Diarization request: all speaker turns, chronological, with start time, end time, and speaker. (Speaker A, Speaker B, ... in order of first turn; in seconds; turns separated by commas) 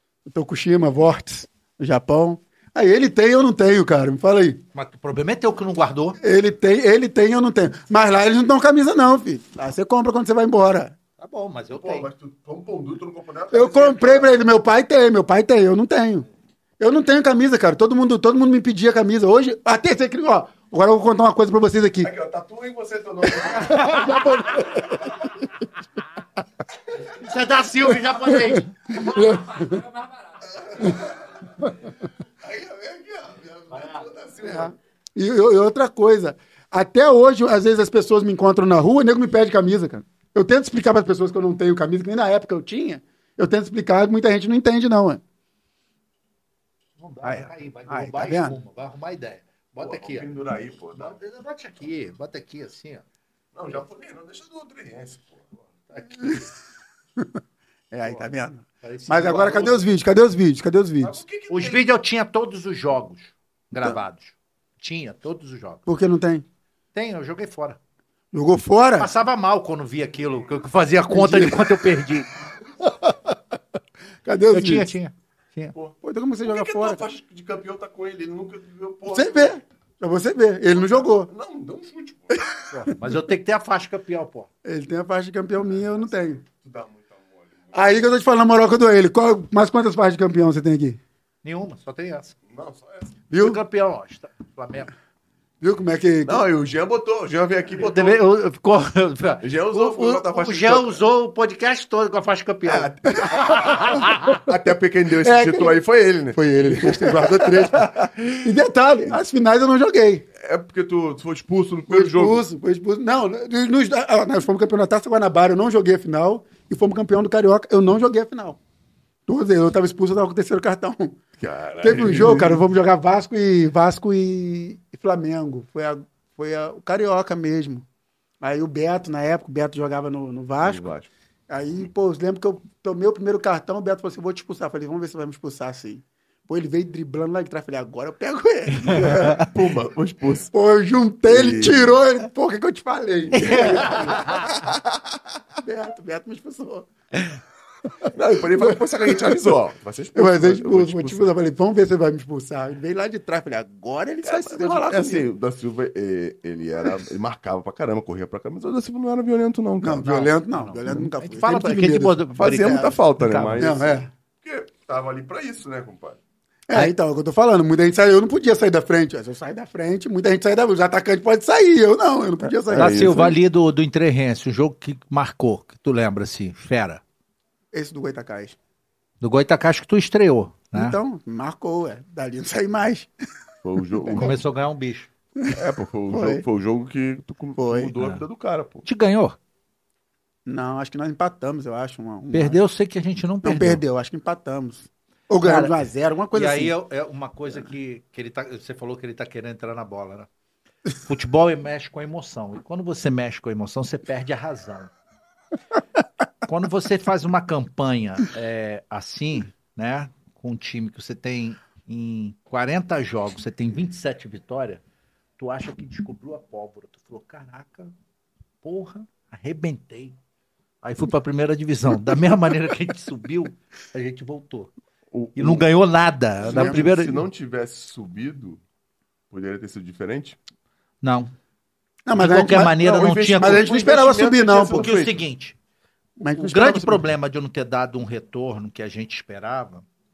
Speaker A: 0.3-4.6, Speaker B: 4.7-6.2, Speaker A: 6.2-11.0, Speaker B: 11.2-12.1, Speaker C: 11.7-14.4, Speaker A: 13.5-16.3, Speaker A: 16.8-22.1, Speaker C: 22.0-25.2, Speaker A: 23.4-25.3, Speaker B: 23.7-24.6, Speaker B: 27.0-29.3, Speaker A: 27.8-29.9, Speaker C: 30.4-31.6, Speaker A: 31.6-31.9, Speaker C: 32.4-34.7, Speaker B: 33.8-34.0, Speaker A: 34.4-45.2, Speaker B: 47.0-50.3, Speaker A: 47.2-48.6, Speaker C: 49.8-51.2, Speaker B: 51.0-53.0, Speaker C: 53.5-55.5, Speaker B: 55.9-56.4, Speaker A: 56.2-56.5, Speaker A: 57.9-61.2, Speaker B: 58.8-59.9, Speaker C: 61.0-61.9, Speaker B: 61.5-65.8, Speaker A: 65.9-66.5, Speaker B: 66.9-67.8, Speaker A: 68.3-69.1, Speaker B: 69.0-72.3, Speaker A: 71.1-71.7, Speaker A: 74.2-74.9, Speaker B: 74.5-75.8, Speaker C: 75.8-79.6, Speaker A: 76.0-77.0, Speaker A: 79.1-81.3, Speaker C: 80.7-82.5, Speaker B: 82.7-84.5, Speaker A: 84.6-86.4, Speaker C: 86.4-87.9, Speaker A: 87.7-91.0, Speaker B: 91.4-92.3, Speaker C: 92.5-93.2, Speaker A: 93.3-93.6, Speaker B: 93.4-94.9, Speaker A: 95.6-96.4, Speaker C: 96.2-98.2, Speaker B: 97.8-104.4, Speaker C: 99.4-101.0, Speaker C: 102.7-108.5, Speaker A: 103.1-103.9, Speaker A: 105.2-105.8, Speaker A: 106.3-110.2, Speaker C: 110.4-112.4, Speaker A: 111.9-118.6, Speaker A: 119.3-121.2, Speaker C: 121.4-122.6, Speaker A: 121.8-127.8, Speaker A: 128.4-130.8, Speaker C: 130.6-131.1, Speaker A: 131.5-139.4, Speaker B: 138.9-139.3, Speaker C: 138.9-140.5, Speaker A: 140.5-144.6, Speaker C: 141.2-142.0, Speaker B: 143.4-144.6, Speaker C: 143.4-144.8, Speaker A: 145.6-146.9, Speaker A: 147.9-149.5, Speaker C: 148.1-151.3, Speaker A: 150.2-155.3, Speaker C: 154.2-160.3, Speaker A: 159.8-162.9, Speaker B: 160.5-163.7, Speaker C: 162.4-166.2, Speaker A: 163.6-164.1, Speaker A: 166.7-173.3, Speaker C: 172.7-173.3, Speaker B: 172.7-177.0, Speaker A: 177.7-178.6, Speaker B: 179.2-181.0, Speaker A: 180.7-183.1, Speaker C: 183.6-184.4, Speaker A: 184.0-184.3, Speaker B: 184.1-185.1, Speaker A: 185.4-186.4, Speaker C: 185.5-188.8, Speaker A: 187.6-187.9, Speaker B: 188.8-189.4, Speaker A: 190.5-192.6, Speaker B: 192.3-193.8, Speaker A: 193.4-196.7, Speaker B: 195.4-200.3, Speaker B: 201.1-204.9, Speaker B: 206.4-214.8, Speaker B: 215.4-217.9, Speaker B: 218.6-220.2, Speaker B: 220.8-224.7, Speaker C: 225.1-225.7, Speaker B: 225.4-227.2, Speaker C: 226.4-228.6, Speaker A: 226.5-226.8, Speaker C: 229.3-230.4, Speaker B: 231.0-231.3, Speaker A: 232.1-234.9, Speaker B: 232.1-233.7, Speaker C: 232.8-235.2, Speaker B: 234.7-235.6, Speaker A: 236.2-237.1, Speaker B: 236.4-239.9